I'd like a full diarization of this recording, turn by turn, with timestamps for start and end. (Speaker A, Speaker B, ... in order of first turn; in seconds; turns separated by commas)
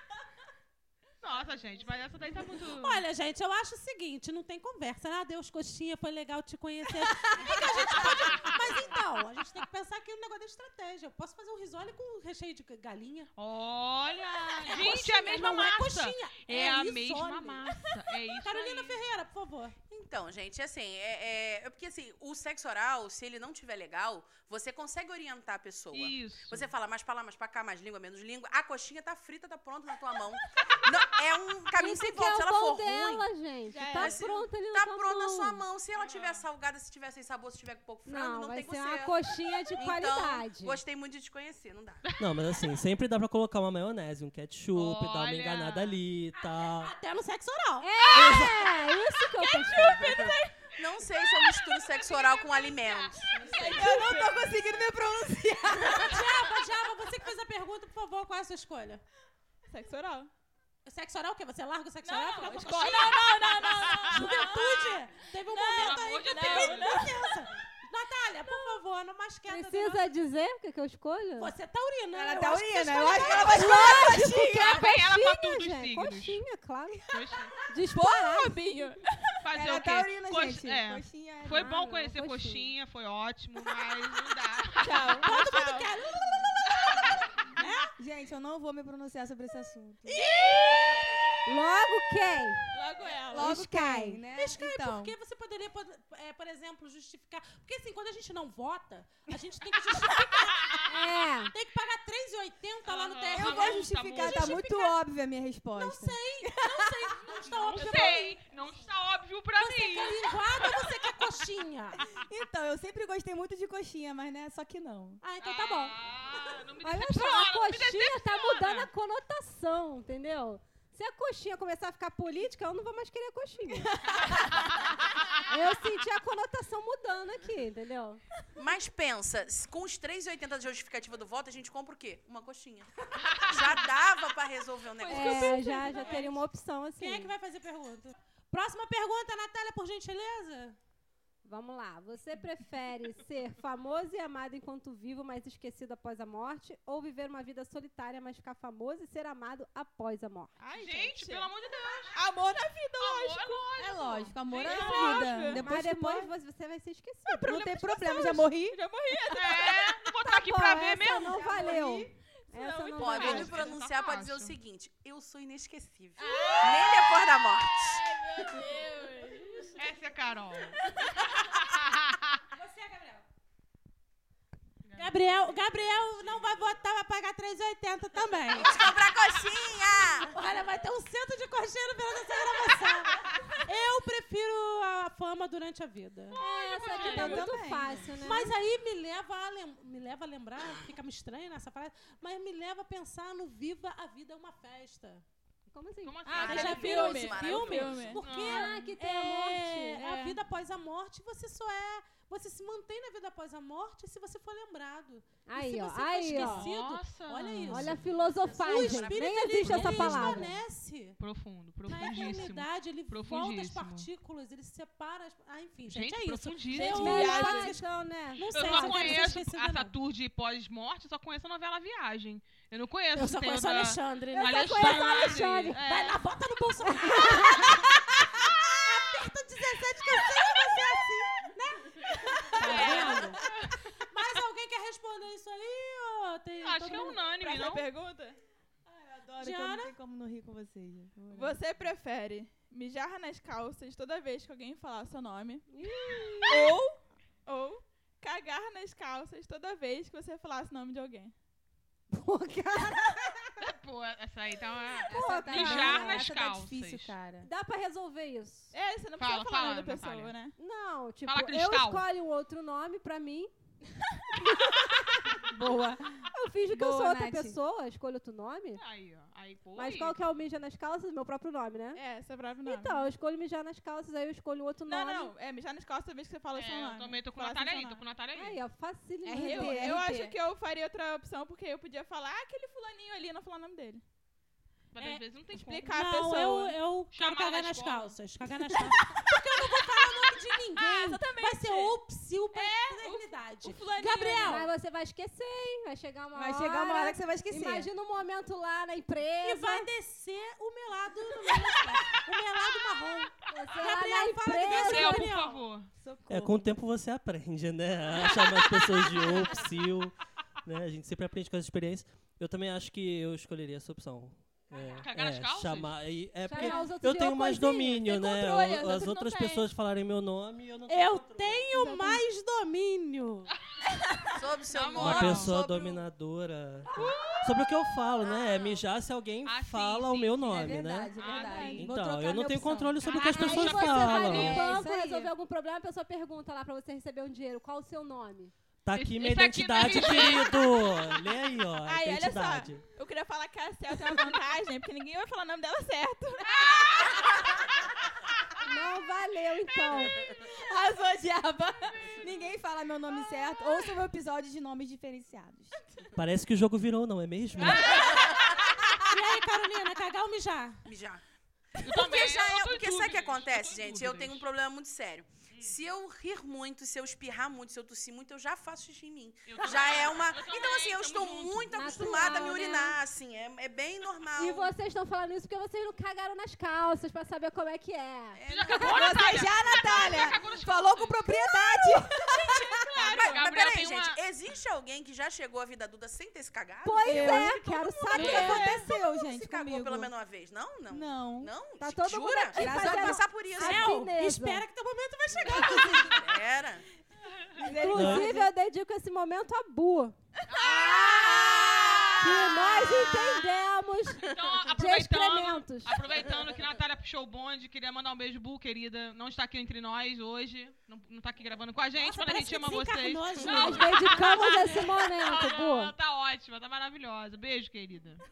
Speaker A: 1.2-3.0, Speaker B: 2.6-13.3, Speaker A: 7.4-8.6, Speaker A: 13.4-19.0, Speaker B: 14.5-19.8, Speaker C: 19.9-33.3, Speaker A: 25.9-26.7, Speaker D: 31.7-35.6, Speaker E: 33.7-34.2, Speaker C: 34.0-39.2, Speaker A: 36.0-36.4, Speaker D: 38.1-40.8, Speaker C: 39.8-42.2, Speaker F: 42.2-46.9, Speaker A: 44.7-46.0, Speaker B: 46.4-48.4, Speaker D: 47.8-49.9, Speaker A: 49.4-50.4, Speaker B: 49.8-50.4, Speaker E: 49.9-50.3, Speaker C: 50.8-53.4, Speaker B: 53.3-54.2, Speaker E: 53.5-54.5, Speaker G: 53.5-56.3, Speaker B: 55.9-59.0, Speaker E: 59.7-60.3, Speaker B: 60.9-70.1, Speaker E: 62.0-64.6, Speaker A: 63.9-64.6, Speaker E: 65.5-67.2, Speaker A: 65.8-67.1, Speaker D: 69.5-71.5, Speaker B: 71.4-74.3, Speaker G: 72.1-74.7, Speaker D: 73.2-77.1, Speaker A: 74.1-76.4, Speaker A: 77.1-77.5, Speaker D: 77.7-78.6, Speaker E: 77.9-79.1, Speaker A: 79.4-85.5, Speaker G: 79.5-81.7, Speaker D: 81.6-82.7, Speaker E: 84.8-85.9, Speaker B: 85.2-87.0, Speaker B: 87.6-87.9, Speaker G: 88.0-90.2, Speaker B: 90.2-91.0, Speaker A: 90.4-90.9, Speaker D: 91.5-92.6, Speaker E: 92.7-93.5, Speaker G: 93.3-95.1, Speaker D: 93.3-94.2, Speaker B: 94.3-104.9, Speaker D: 100.9-101.5, Speaker A: 102.9-104.8, Speaker G: 103.4-107.1, Speaker B: 105.8-108.4, Speaker A: 107.5-110.4, Speaker B: 109.6-112.0, Speaker G: 112.3-115.2, Speaker B: 115.2-116.0, Speaker A: 115.4-118.9, Speaker D: 116.8-124.0, Speaker D: 125.4-128.2, Speaker C: 128.6-135.7, Speaker E: 134.9-136.4, Speaker D: 135.1-137.3, Speaker B: 137.0-140.8, Speaker D: 141.4-150.5, Speaker E: 150.6-151.5, Speaker A: 150.7-152.2, Speaker E: 152.1-153.7, Speaker A: 153.0-155.5, Speaker G: 153.8-156.3, Speaker E: 154.6-155.7, Speaker D: 155.5-157.7, Speaker E: 157.4-159.9, Speaker G: 157.4-158.8, Speaker A: 159.3-161.4, Speaker D: 160.2-163.7, Speaker G: 161.1-162.1, Speaker E: 162.5-163.6, Speaker C: 163.0-167.9, Speaker A: 163.0-164.6, Speaker E: 166.2-169.8, Speaker A: 169.8-170.8, Speaker E: 170.9-171.2, Speaker A: 171.5-172.4, Speaker B: 172.6-173.2, Speaker A: 174.8-175.2, Speaker B: 175.0-179.0, Speaker C: 178.5-180.3, Speaker B: 180.2-186.4, Speaker D: 186.4-188.5, Speaker A: 186.4-187.6, Speaker G: 187.0-188.2, Speaker B: 188.2-195.2, Speaker D: 195.7-196.5, Speaker A: 196.1-196.8, Speaker C: 196.3-198.1, Speaker B: 196.4-208.0, Speaker E: 196.5-198.2, Speaker A: 198.2-198.9, Speaker D: 198.4-200.4, Speaker D: 205.5-206.7, Speaker A: 206.3-208.0, Speaker D: 207.7-210.5, Speaker C: 208.3-210.5, Speaker B: 208.6-211.2, Speaker A: 211.2-214.1, Speaker B: 211.9-220.0, Speaker A: 215.9-217.1, Speaker E: 216.7-217.7, Speaker D: 217.0-219.2, Speaker A: 218.5-225.8, Speaker B: 223.2-237.2, Speaker D: 224.4-225.8, Speaker E: 225.7-226.2, Speaker D: 226.8-227.8, Speaker G: 230.4-230.9, Speaker A: 232.6-233.7, Speaker E: 232.6-233.3, Speaker A: 236.6-237.9, Speaker E: 237.4-238.4, Speaker G: 238.9-241.6, Speaker B: 239.4-239.9, Speaker E: 241.3-245.6, Speaker D: 245.7-246.6, Speaker E: 246.5-251.3, Speaker G: 252.1-253.1, Speaker A: 253.6-257.1, Speaker G: 255.1-257.5, Speaker D: 255.1-256.3, Speaker D: 257.4-258.7, Speaker E: 258.7-260.5, Speaker A: 259.2-260.4, Speaker D: 260.6-263.5, Speaker A: 261.3-262.1, Speaker D: 264.4-264.8, Speaker G: 265.5-267.6, Speaker D: 266.3-268.8, Speaker A: 268.8-270.2, Speaker D: 269.8-272.0, Speaker E: 271.9-273.0, Speaker D: 272.6-275.3, Speaker E: 274.9-278.0, Speaker A: 276.5-278.6, Speaker D: 278.4-280.0, Speaker G: 279.3-280.4, Speaker E: 279.4-284.0, Speaker A: 284.9-286.0, Speaker E: 285.5-286.8, Speaker B: 285.8-294.7, Speaker A: 287.1-288.2, Speaker E: 290.8-292.0, Speaker E: 292.5-294.6, Speaker D: 294.4-299.9, Speaker G: 296.3-297.9, Speaker B: 299.4-305.6, Speaker D: 303.5-305.5, Speaker A: 304.6-305.9, Speaker G: 306.0-306.7, Speaker F: 306.3-321.7, Speaker A: 314.9-315.9, Speaker D: 316.5-318.1, Speaker E: 316.5-316.9, Speaker E: 318.1-319.7, Speaker B: 320.9-323.5, Speaker D: 321.8-322.2, Speaker E: 324.0-324.3, Speaker C: 324.4-326.1, Speaker A: 324.7-325.6, Speaker F: 325.0-326.9, Speaker F: 327.4-334.7, Speaker A: 329.4-331.9, Speaker G: 330.5-335.3, Speaker E: 331.4-331.8, Speaker A: 333.0-334.8, Speaker B: 333.1-334.3, Speaker D: 333.4-338.5, Speaker F: 338.8-342.9, Speaker A: 338.9-341.1, Speaker E: 341.9-347.3, Speaker D: 348.6-350.1, Speaker G: 350.7-355.9, Speaker F: 356.2-358.1, Speaker B: 357.6-358.4, Speaker B: 359.1-360.8, Speaker C: 360.9-361.2, Speaker A: 361.8-364.4, Speaker C: 361.8-374.7, Speaker A: 365.5-365.8, Speaker A: 369.5-373.0, Speaker D: 371.8-372.9, Speaker D: 374.4-378.4, Speaker C: 378.4-380.4, Speaker A: 378.5-381.5, Speaker G: 378.7-382.9, Speaker A: 382.4-384.2, Speaker E: 383.0-383.5, Speaker C: 383.0-393.9, Speaker D: 386.8-388.8, Speaker G: 387.0-390.1, Speaker A: 388.2-388.9, Speaker G: 390.9-391.5, Speaker D: 391.8-394.6, Speaker G: 392.5-393.2, Speaker B: 393.6-396.3, Speaker C: 395.5-396.8, Speaker G: 397.6-398.5, Speaker D: 397.6-400.1, Speaker F: 397.9-398.3, Speaker A: 400.5-402.5, Speaker C: 400.9-402.3, Speaker D: 402.2-406.0, Speaker A: 404.2-414.3, Speaker B: 412.0-415.1, Speaker D: 413.5-415.9, Speaker A: 415.1-418.2